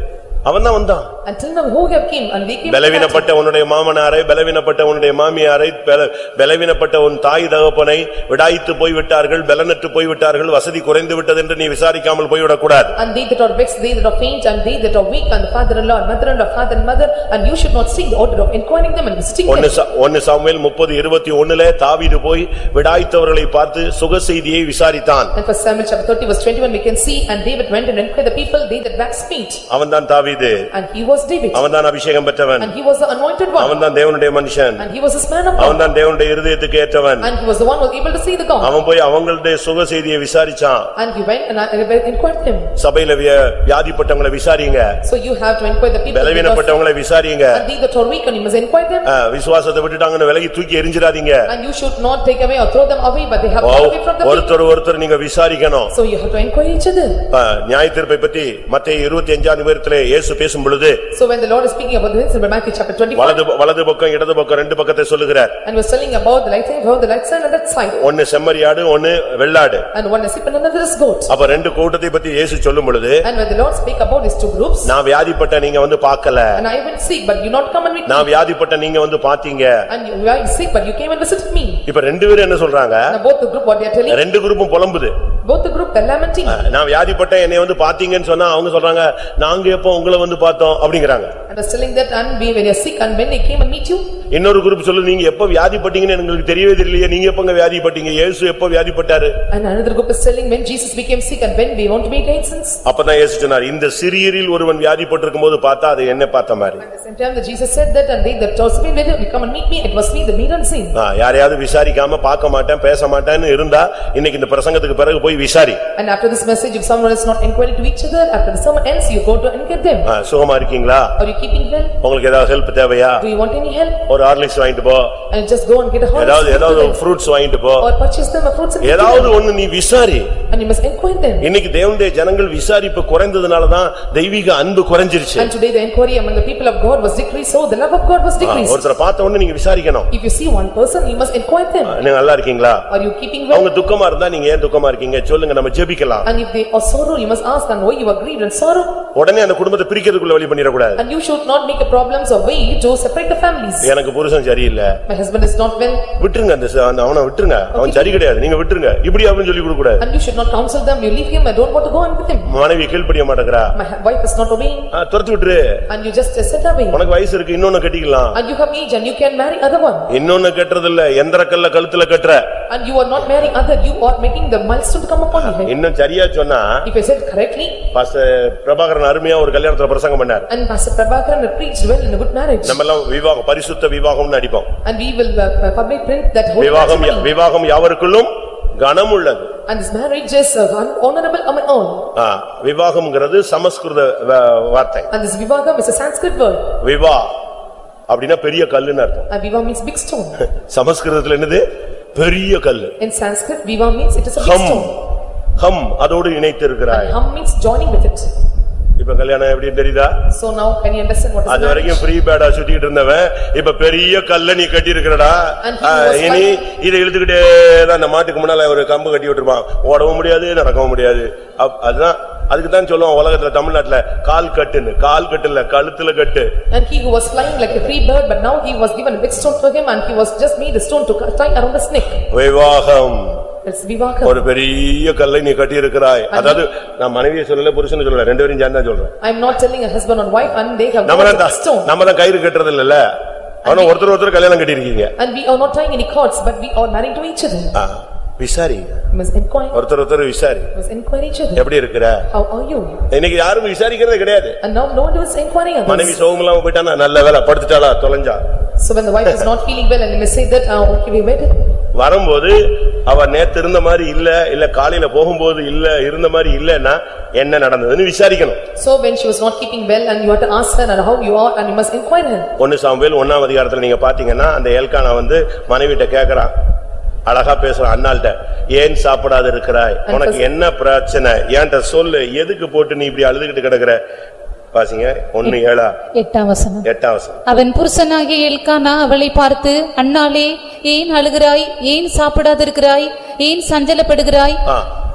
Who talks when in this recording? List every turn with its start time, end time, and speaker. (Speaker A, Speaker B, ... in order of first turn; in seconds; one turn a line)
Speaker A: 0.5-1.1
Speaker B: 1.2-3.3
Speaker A: 2.6-12.9
Speaker B: 12.9-19.7
Speaker A: 19.5-25.3
Speaker B: 25.3-29.6
Speaker A: 29.7-30.6
Speaker B: 30.7-31.6
Speaker A: 31.5-32.7
Speaker B: 32.6-33.8
Speaker A: 33.6-34.8
Speaker B: 34.8-35.8
Speaker A: 35.6-37.3
Speaker B: 37.2-38.7
Speaker A: 38.6-40.9
Speaker B: 41.0-42.7
Speaker A: 42.8-44.9
Speaker B: 45.0-46.8
Speaker A: 46.1-47.6
Speaker B: 47.5-49.1
Speaker A: 49.0-51.5
Speaker B: 51.5-54.5
Speaker A: 53.6-55.9
Speaker B: 55.9-57.2
Speaker A: 57.3-61.0
Speaker B: 61.1-63.4
Speaker A: 63.1-65.5
Speaker B: 65.6-68.0
Speaker A: 68.0-69.8
Speaker B: 69.9-71.3
Speaker A: 71.3-73.2
Speaker B: 73.2-74.9
Speaker A: 74.8-76.6
Speaker B: 76.5-78.3
Speaker A: 78.0-79.8
Speaker B: 79.9-81.8
Speaker A: 81.8-83.2
Speaker B: 83.1-84.2
Speaker A: 84.1-85.1
Speaker B: 85.4-86.6
Speaker A: 86.5-91.3
Speaker B: 91.5-94.1
Speaker A: 94.3-99.3
Speaker B: 99.5-102.8
Speaker A: 102.8-106.8
Speaker B: 106.8-111.0
Speaker A: 110.9-115.8
Speaker B: 116.0-120.1
Speaker A: 120.0-121.1
Speaker B: 121.2-121.9
Speaker A: 122.0-123.2
Speaker B: 123.2-124.0
Speaker A: 124.1-125.2
Speaker B: 125.3-127.0
Speaker A: 126.1-127.9
Speaker B: 127.8-129.4
Speaker A: 128.8-130.3
Speaker B: 130.5-131.5
Speaker A: 131.4-135.5
Speaker B: 135.4-138.9
Speaker A: 138.4-140.1
Speaker B: 140.1-142.0
Speaker A: 141.8-142.8
Speaker B: 142.9-143.7
Speaker A: 143.5-146.3
Speaker B: 146.2-149.0
Speaker A: 149.1-151.0
Speaker B: 151.0-153.9
Speaker A: 153.8-155.0
Speaker B: 155.1-156.1
Speaker A: 156.2-160.0
Speaker B: 157.7-158.2
Speaker B: 160.0-162.5
Speaker A: 162.4-163.7
Speaker B: 163.7-164.9
Speaker A: 164.9-165.8
Speaker B: 165.9-167.0
Speaker A: 166.9-168.4
Speaker B: 168.3-170.1
Speaker A: 170.1-172.4
Speaker B: 172.7-175.7
Speaker A: 175.3-176.8
Speaker B: 176.8-177.8
Speaker A: 177.9-180.5
Speaker B: 180.5-182.8
Speaker A: 182.6-184.7
Speaker B: 184.8-187.3
Speaker A: 186.6-189.5
Speaker B: 189.7-192.1
Speaker A: 192.1-195.1
Speaker B: 195.1-196.8
Speaker A: 196.8-197.3
Speaker A: 198.1-199.3
Speaker B: 199.3-200.4
Speaker A: 200.4-202.9
Speaker B: 203.0-205.0
Speaker A: 204.4-204.9
Speaker A: 205.6-207.2
Speaker B: 206.9-208.3
Speaker A: 209.0-210.1
Speaker B: 210.3-212.1
Speaker A: 211.5-226.5
Speaker B: 215.6-216.6
Speaker B: 226.7-232.3
Speaker A: 232.3-233.4
Speaker B: 233.6-234.4
Speaker A: 234.2-239.1
Speaker B: 236.3-236.7
Speaker B: 239.2-241.9
Speaker A: 241.0-243.1
Speaker A: 243.6-245.1
Speaker B: 243.7-243.9
Speaker B: 245.2-247.8
Speaker A: 247.7-249.0
Speaker B: 249.1-249.8
Speaker A: 249.7-250.7
Speaker B: 250.7-251.7
Speaker A: 251.5-252.2
Speaker B: 252.3-253.1
Speaker A: 253.1-254.6
Speaker B: 254.6-256.2
Speaker A: 255.8-258.4
Speaker B: 258.8-261.6
Speaker A: 261.9-268.6
Speaker B: 268.8-272.5
Speaker A: 272.6-276.5
Speaker A: 277.3-284.0
Speaker B: 280.1-280.4
Speaker A: 284.7-285.9
Speaker C: 286.1-286.9
Speaker A: 286.8-287.4
Speaker C: 287.4-294.6